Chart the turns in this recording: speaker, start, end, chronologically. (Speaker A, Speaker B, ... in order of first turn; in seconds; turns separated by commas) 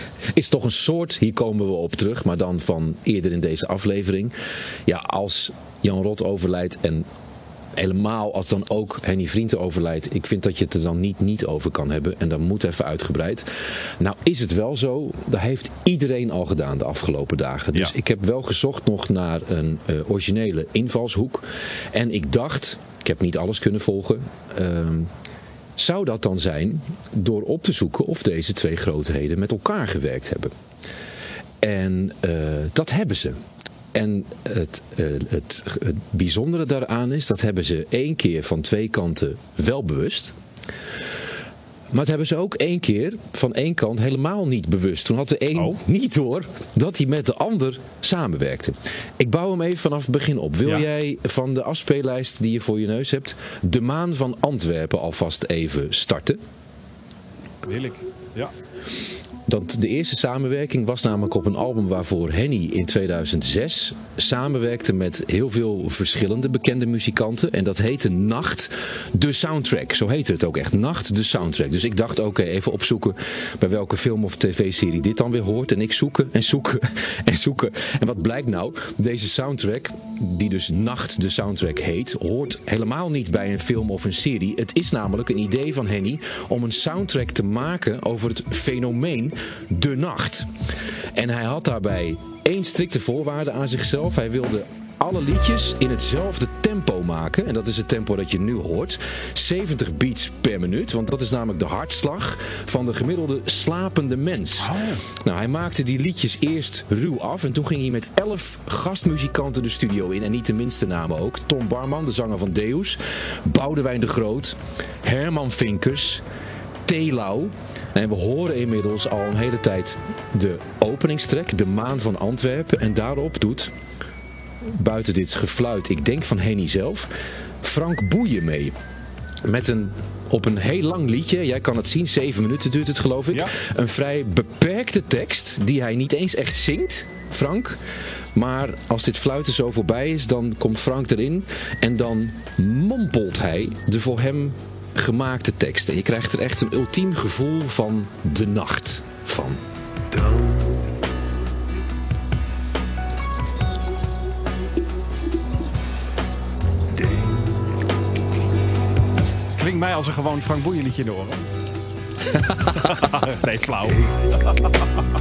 Speaker A: 0.3-4.3, Speaker A: 4.9-7.1, Speaker A: 7.8-25.1, Speaker A: 25.8-30.5, Speaker A: 31.6-33.4, Speaker A: 33.9-40.4, Speaker A: 41.9-56.4, Speaker B: 57.6-58.5, Speaker A: 59.5-90.5, Speaker A: 91.1-116.2, Speaker B: 104.6-105.0, Speaker A: 116.9-123.8, Speaker A: 124.6-128.8, Speaker A: 129.4-137.8, Speaker A: 138.3-149.6, Speaker B: 159.6-161.5, Speaker A: 162.3-162.8, Speaker B: 162.7-164.9